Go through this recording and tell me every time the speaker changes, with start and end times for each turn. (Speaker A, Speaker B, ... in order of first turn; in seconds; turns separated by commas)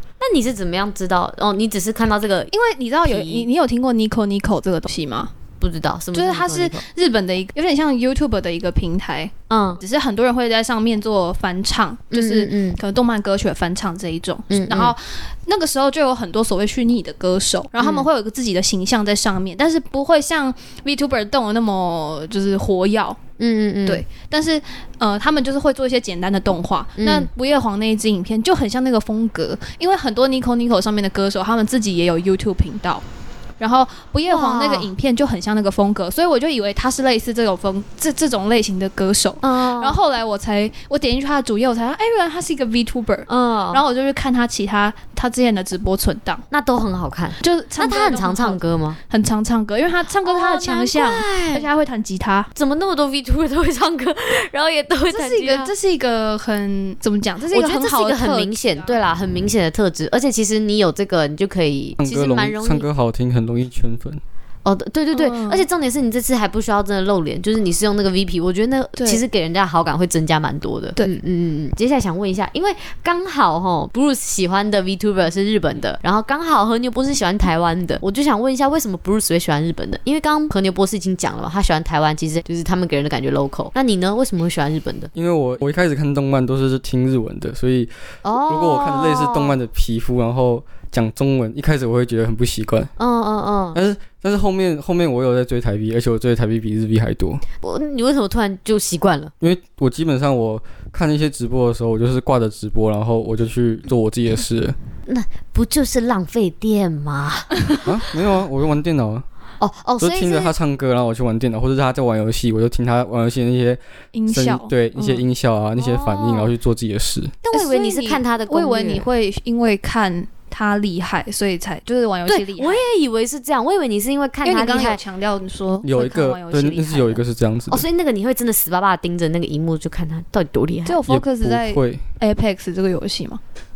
Speaker A: 0.2-2.5, Speaker B: 2.5-5.3, Speaker A: 3.0-3.5, Speaker A: 5.6-6.8, Speaker B: 6.1-23.2, Speaker A: 9.5-9.8, Speaker A: 12.1-12.8, Speaker A: 14.5-14.9, Speaker A: 17.8-18.1, Speaker A: 23.4-24.0, Speaker B: 23.9-33.0, Speaker A: 27.0-27.3, Speaker B: 33.6-46.5, Speaker A: 34.3-34.9, Speaker A: 39.4-40.0, Speaker A: 43.3-43.8, Speaker A: 46.5-49.0, Speaker B: 47.4-52.5, Speaker A: 50.2-51.7, Speaker A: 52.5-55.7, Speaker B: 55.1-59.0, Speaker A: 57.5-62.9, Speaker C: 62.0-64.2, Speaker A: 64.7-85.1, Speaker B: 65.1-65.7, Speaker B: 69.0-69.2, Speaker C: 85.2-87.9, Speaker A: 88.2-89.5, Speaker C: 88.5-92.9, Speaker A: 93.0-93.8, Speaker C: 93.7-97.4, Speaker A: 97.6-99.3, Speaker C: 99.4-104.8, Speaker A: 105.1-107.9, Speaker C: 107.8-109.2, Speaker A: 109.6-110.5, Speaker C: 110.0-117.4, Speaker B: 114.1-115.2, Speaker A: 115.8-116.5, Speaker A: 117.4-119.0, Speaker B: 117.5-122.8, Speaker A: 122.3-125.0, Speaker B: 124.4-127.2, Speaker C: 125.8-127.8, Speaker A: 127.7-131.0, Speaker B: 130.9-133.4, Speaker C: 131.1-132.0